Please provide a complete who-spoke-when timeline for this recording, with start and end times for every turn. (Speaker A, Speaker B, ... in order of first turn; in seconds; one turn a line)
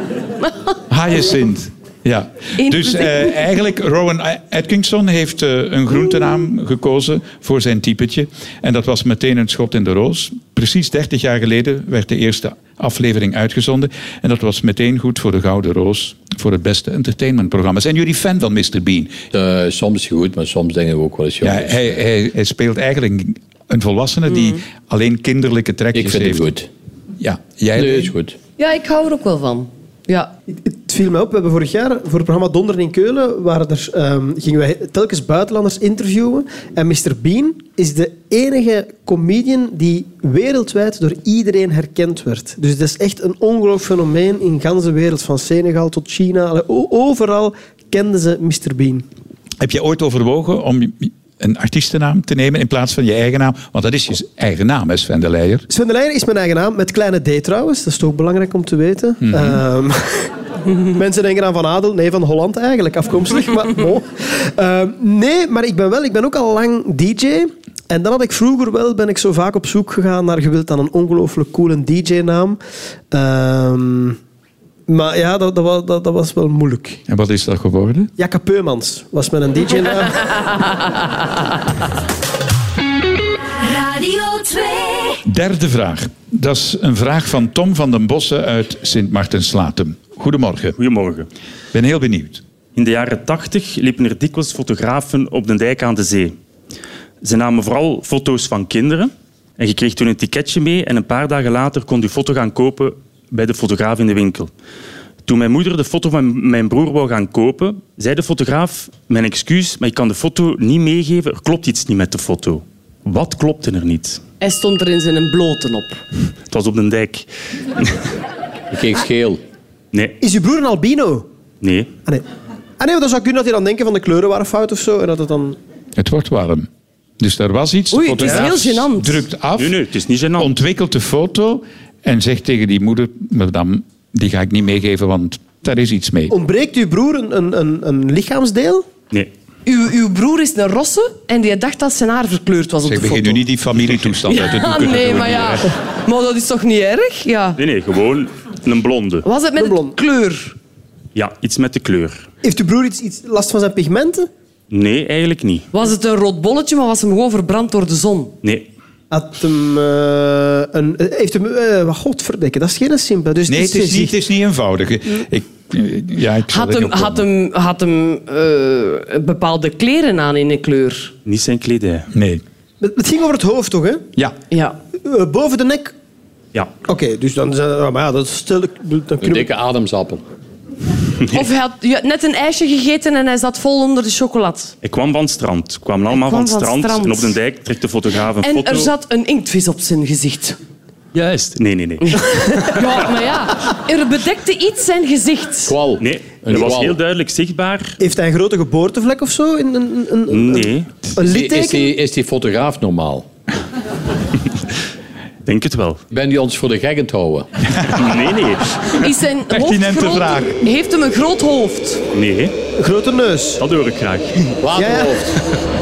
Speaker A: 0.9-19.2
Speaker B: 2.6-3.4
Speaker C: 19.3-21.9
Speaker A: 21.4-26.5
Speaker C: 25.9-26.7
Speaker A: 27.2-28.1
Speaker C: 27.8-28.4
Speaker B: 28.6-30.3
Speaker D: 30.5-49.1
Speaker A: 49.6-55.7
Speaker D: 55.7-60.3
Speaker A: 59.2-59.6
Speaker D: 60.9-72.6
Speaker D: 73.1-74.2
Speaker D: 74.9-77.0
Speaker A: 77.1-78.1
Speaker D: 78.2-80.4
Speaker A: 85.2-90.8
Speaker E: 90.8-91.3
Speaker A: 91.7-92.4
Speaker E: 92.8-96.3
Speaker E: 97.2-104.5
Speaker E: 105.2-114.2
Speaker B: 114.4-116.0
Speaker E: 116.5-117.3
Speaker C: 118.7-119.4
Speaker D: 120.2-121.3
Speaker E: 121.6-121.9
Speaker D: 122.8-125.6
Speaker A: 126.0-126.7
Speaker A: 127.2-129.8
Speaker B: 127.9-129.2
Speaker E: 129.6-130.5
Speaker A: 130.4-136.3
Speaker D: 136.3-138.9
Speaker B: 139.7-143.4
Speaker A: 142.8-145.7
Speaker B: 144.3-147.6
Speaker E: 147.6-149.2
Speaker B: 149.2-150.6
Speaker D: 149.6-150.0
Speaker E: 151.2-152.3
Speaker D: 152.4-154.3
Speaker E: 154.7-155.7
Speaker B: 155.7-158.3
Speaker E: 158.4-158.7
Speaker D: 159.1-164.2
Speaker A: 163.5-167.3
Speaker B: 166.5-171.1
Speaker E: 171.3-172.1
Speaker A: 172.1-172.4
Speaker D: 172.8-174.1
Speaker B: 174.5-174.8
Speaker D: 175.0-175.9
Speaker D: 176.8-179.5
Speaker C: 179.2-180.2
Speaker B: 181.3-184.7
Speaker E: 184.8-188.9
Speaker B: 186.1-187.3
Speaker B: 188.4-190.6
Speaker E: 191.1-192.8
Speaker B: 192.1-195.7
Speaker C: 195.7-197.0
Speaker E: 196.0-198.0
Speaker D: 198.0-201.9
Speaker E: 200.3-200.9
Speaker C: 201.2-203.3
Speaker E: 205.5-206.0
Speaker C: 206.1-207.5
Speaker E: 207.9-208.9
Speaker B: 209.0-212.0
Speaker A: 209.5-210.6
Speaker E: 212.1-212.5
Speaker D: 212.8-213.6
Speaker E: 213.6-214.6
Speaker C: 214.6-215.3
Speaker D: 214.8-215.2